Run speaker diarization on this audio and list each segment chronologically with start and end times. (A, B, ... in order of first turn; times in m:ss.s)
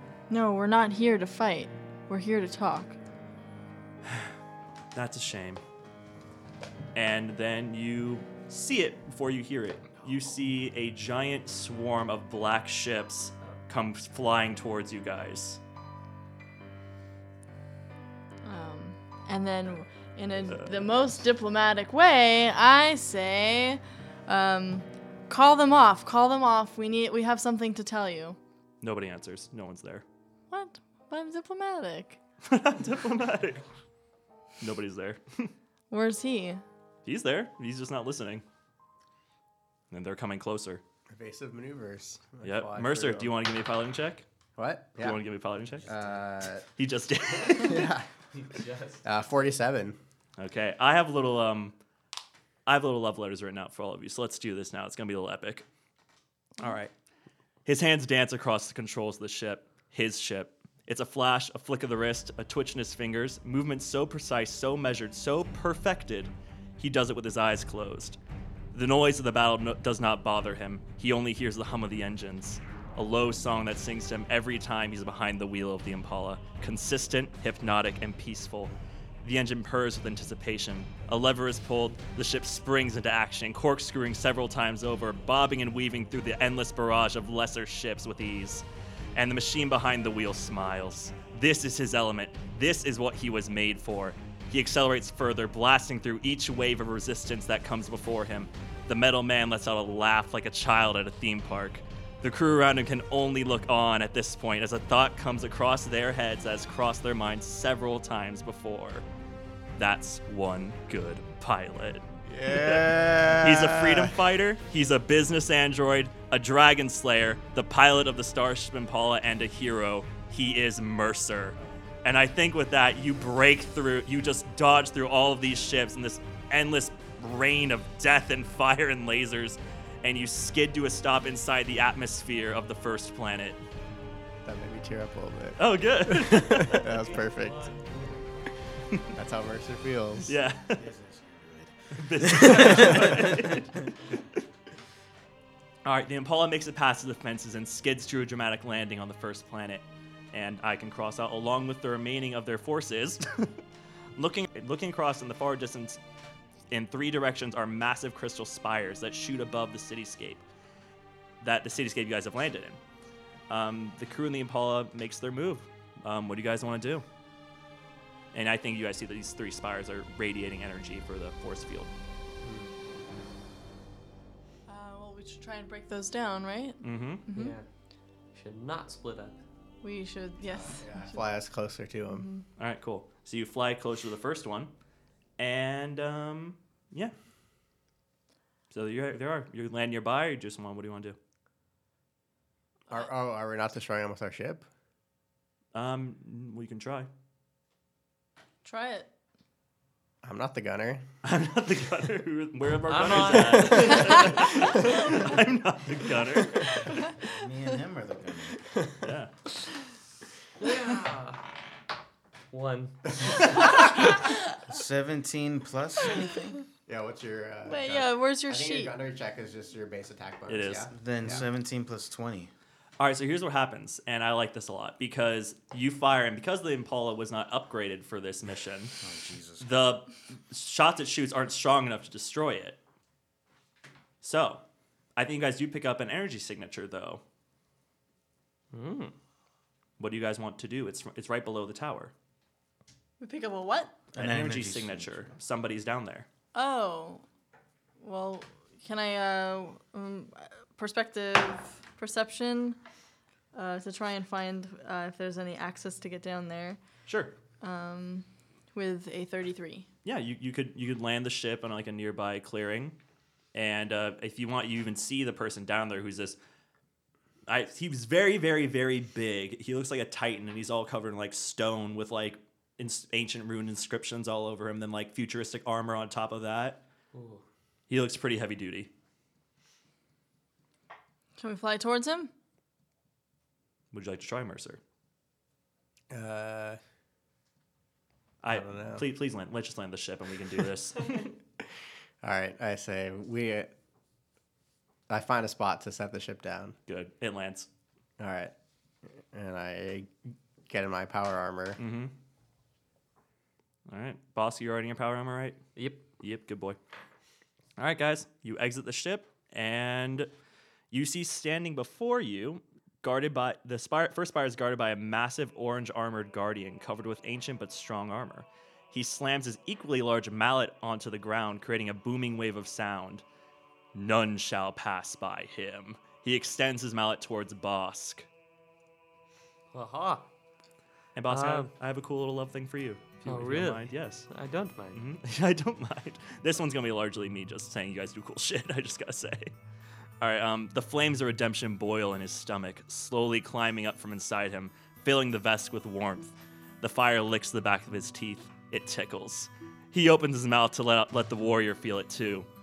0:00.3-0:03.0 A
0:04.9-0:05.6 B
0:06.9-0:15.6 B
0:18.4-0:28.4 A
0:20.5-0:20.8 B
0:28.8-0:30.0 B
0:30.5-0:32.2 A
0:32.4-0:33.6 B
0:34.6-0:35.5 B
0:35.9-0:36.6 A
0:37.0-0:38.4 B
0:39.9-0:40.8 B
0:41.1-0:43.3 C
0:42.4-0:44.2 B
0:44.6-0:45.2 C
0:45.0-0:45.9 B
0:45.8-0:46.2 D
0:45.8-0:46.6 C
0:46.8-0:47.9 B
0:47.5-0:48.1 C
0:48.4-0:49.0 E
0:49.0-0:50.0 C
0:50.4-0:51.7 B
0:52.6-0:55.7 B
0:56.6-0:56.9 B
0:57.6-1:08.2 B
1:08.7-1:28.6 B
1:29.2-1:49.0 B
1:49.8-2:13.6 B
1:52.3-1:53.4 C
1:52.9-1:53.7 D
2:14.4-2:17.7 C
2:15.6-2:16.8 B
2:16.5-2:18.7 E
2:19.1-2:20.3 C
2:20.2-2:20.8 B
2:20.7-2:23.5 D
2:21.9-2:23.8 B
2:25.8-2:33.6 B
2:34.2-2:36.0 B
2:36.7-2:40.4 B
2:41.4-2:42.8 B
2:43.5-2:47.0 B
2:48.3-2:51.9 B
2:52.4-2:52.7 C
2:54.7-2:57.6 A
2:56.8-2:57.2 B
2:57.3-2:57.7 E
2:58.3-2:59.4 E
2:59.8-3:01.2 A
3:00.5-3:02.2 C
3:02.1-3:02.4 A
3:02.6-3:04.7 B
3:05.4-3:07.1 B
3:08.7-3:11.2 B
3:12.9-3:14.6 C
3:15.7-3:17.1 B
3:18.6-3:19.1 A
3:20.2-3:21.0 C
3:21.2-3:26.8 B
3:22.8-3:24.9 E
3:26.8-3:27.1 A
3:27.2-3:28.6 D
3:29.0-3:29.3 B
3:30.6-3:31.4 E
3:32.5-3:33.6 E
3:34.6-3:36.5 D
3:36.9-3:41.4 C
3:37.6-3:38.9 A
3:40.5-3:40.9 B
3:40.9-3:42.5 D
3:43.0-3:48.9 B
3:49.0-3:49.7 D
3:49.6-3:52.8 B
3:54.2-3:54.6 B
3:55.2-3:57.2 B
3:58.7-3:59.1 E
4:00.0-4:02.1 B
4:03.2-4:03.9 A
4:04.1-4:05.3 D
4:04.2-4:06.3 B
4:06.5-4:07.2 A
4:08.0-4:12.8 A
4:13.5-4:16.8 A
4:17.1-4:17.3 B
4:17.6-4:19.9 A
4:20.0-4:23.0 B
4:23.5-4:26.4 B
4:27.5-4:36.8 B
4:37.1-4:37.4 E
4:37.9-4:38.9 B
4:41.4-4:42.3 A
4:43.9-4:44.8 B
4:46.1-4:46.8 C
4:48.4-4:51.3 B
4:48.5-4:49.0 C
4:52.2-4:53.7 C
4:55.1-4:56.8 C
4:56.9-4:57.7 B
4:58.2-4:58.5 C
4:59.2-5:00.1 C
5:00.7-5:01.8 C
5:01.8-5:02.1 B
5:03.9-5:05.6 B
5:05.8-5:06.0 E
5:06.2-5:06.8 B
5:07.8-5:10.3 B
5:10.9-5:23.2 B
5:23.9-5:28.3 B
5:29.7-5:30.3 E
5:31.2-5:34.3 B
5:31.3-5:31.7 E
5:33.2-5:35.0 E
5:34.9-5:39.5 B
5:40.2-5:52.5 B